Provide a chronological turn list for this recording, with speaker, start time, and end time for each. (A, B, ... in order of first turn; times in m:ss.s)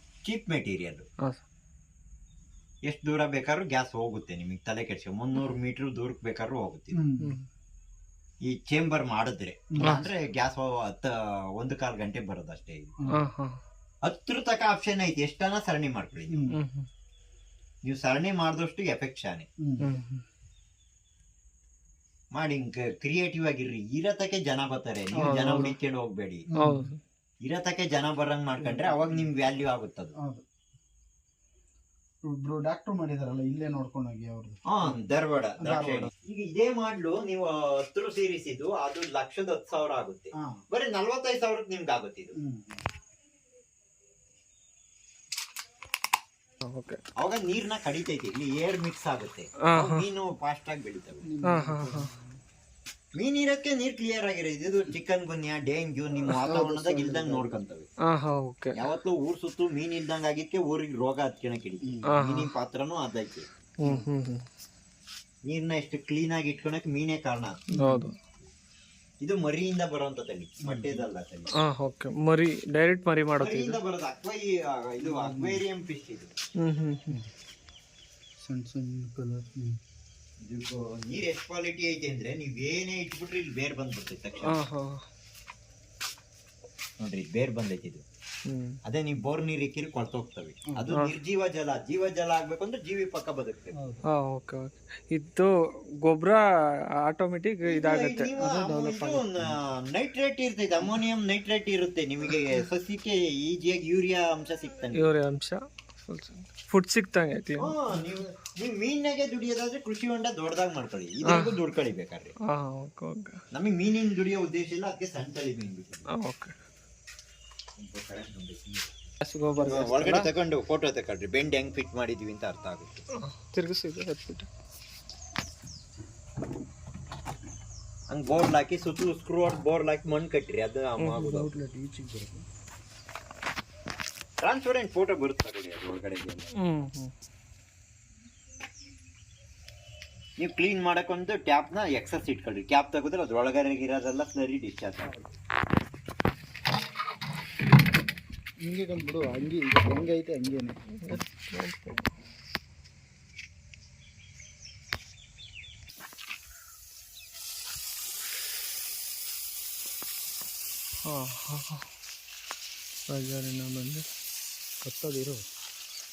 0:00.2-0:01.0 A
0:02.9-0:07.0 A
0:06.9-0:07.4 B
0:08.4-0:12.9 A
0:09.7-0:10.1 B
0:09.8-0:10.1 C
0:13.1-0:13.6 C
0:14.0-0:16.4 A
0:16.2-0:16.6 B
0:16.6-0:16.9 C
0:17.8-0:19.5 A
0:19.6-0:20.0 B
0:19.8-0:20.2 C
0:22.3-0:26.5 A
0:25.2-0:25.8 C
0:26.5-0:26.9 B
0:26.5-0:27.0 C
0:27.4-0:30.1 A
0:28.6-0:29.3 B
0:32.2-0:35.0 B
0:34.7-0:42.3 A
0:35.6-0:36.1 B
0:42.4-0:42.8 B
0:46.7-0:47.0 C
0:47.2-0:51.3 A
0:49.7-0:50.1 C
0:51.2-0:52.4 B
0:51.4-0:52.1 C
0:53.2-0:57.9 A
0:56.2-0:56.5 C
0:56.4-0:57.6 B
0:58.1-0:58.7 C
0:58.8-1:03.5 A
1:01.8-1:02.1 B
1:02.1-1:02.5 C
1:03.8-1:04.4 C
1:05.4-1:07.7 A
1:07.7-1:08.1 B
1:07.7-1:08.2 C
1:09.2-1:11.7 A
1:10.6-1:11.1 B
1:11.6-1:13.8 C
1:13.4-1:16.3 A
1:15.0-1:15.6 B
1:16.6-1:17.2 C
1:18.4-1:19.8 B
1:20.4-1:24.6 A
1:24.4-1:25.0 C
1:27.0-1:28.0 A
1:28.4-1:28.8 C
1:28.8-1:33.8 A
1:33.8-1:34.1 B
1:34.1-1:36.4 C
1:37.0-1:39.2 C
1:37.6-1:45.2 A
1:45.0-1:47.7 C
1:47.6-1:52.3 A
1:51.3-1:51.6 C
1:52.5-1:53.4 C
1:53.5-1:56.1 A
1:56.1-1:56.5 C
1:57.8-2:03.0 A
1:59.2-2:00.3 C
2:03.2-2:04.5 C
2:08.1-2:11.5 A
2:11.0-2:11.4 C
2:11.2-2:12.4 B
2:14.4-2:16.5 A
2:16.6-2:17.1 C
2:20.4-2:25.2 A
2:28.6-2:30.8 B
2:31.0-2:32.1 C
2:41.0-2:41.8 C
2:43.1-2:44.0 C
2:44.8-2:45.4 B